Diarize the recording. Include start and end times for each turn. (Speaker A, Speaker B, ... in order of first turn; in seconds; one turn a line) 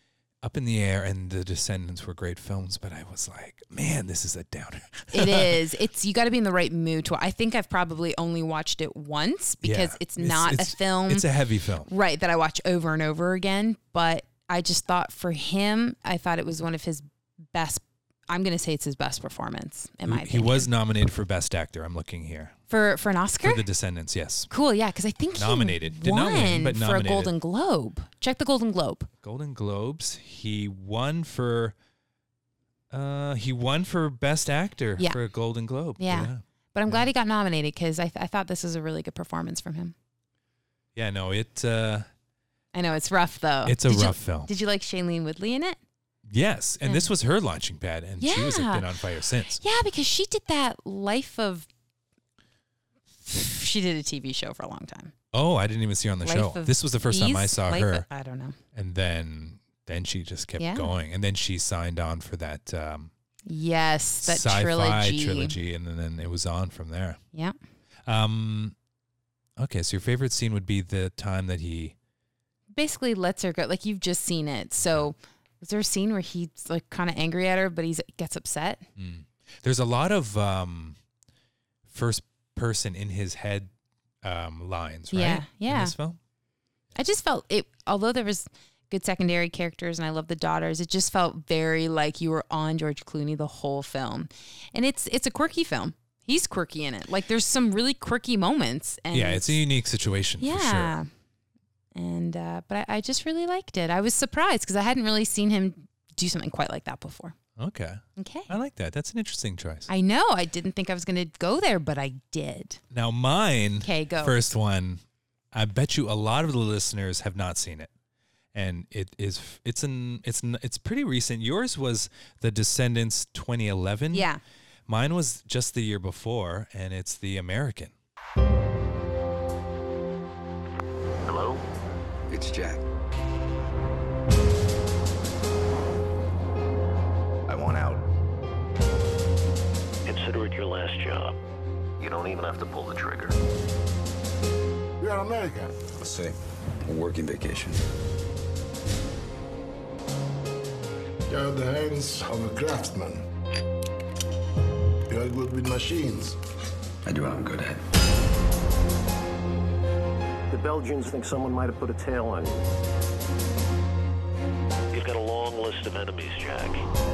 Speaker A: 0.4-5.6
Speaker B: 5.1-11.2
Speaker A: 9.6-11.9
Speaker B: 11.9-20.7
Speaker A: 20.1-22.6
Speaker B: 22.7-23.6
Speaker A: 23.4-24.5
Speaker B: 24.5-29.1
Speaker A: 25.3-27.3
Speaker A: 29.2-31.7
Speaker A: 32.9-37.1
Speaker B: 36.0-39.9
Speaker A: 40.9-42.1
Speaker B: 42.7-45.8
Speaker A: 43.6-44.5
Speaker A: 46.3-49.6
Speaker B: 48.2-48.9
Speaker B: 49.6-51.7
Speaker B: 53.2-55.1
Speaker A: 55.3-58.1
Speaker B: 56.2-58.6
Speaker A: 58.7-63.1
Speaker B: 60.6-60.9
Speaker B: 63.5-65.5
Speaker A: 64.2-67.2
Speaker A: 68.0-68.7
Speaker A: 69.6-71.9
Speaker B: 72.7-78.9
Speaker A: 79.0-81.0
Speaker A: 81.9-83.7
Speaker A: 84.2-86.2
Speaker B: 85.1-85.9
Speaker B: 87.0-99.6
Speaker A: 99.1-100.9
Speaker B: 100.4-101.1
Speaker B: 101.9-107.3
Speaker A: 107.6-109.9
Speaker B: 108.2-108.5
Speaker B: 109.9-112.8
Speaker A: 112.9-117.9
Speaker B: 113.8-114.4
Speaker A: 118.5-124.3
Speaker B: 124.1-124.4
Speaker A: 124.9-127.9
Speaker C: 131.2-131.6
Speaker D: 132.3-132.8
Speaker D: 137.5-138.0
Speaker C: 140.1-141.4
Speaker C: 142.0-143.3
Speaker E: 145.0-145.7
Speaker D: 145.9-147.8
Speaker E: 151.3-153.2
Speaker E: 155.1-156.4
Speaker D: 157.0-157.8
Speaker C: 160.5-162.6
Speaker C: 164.9-166.8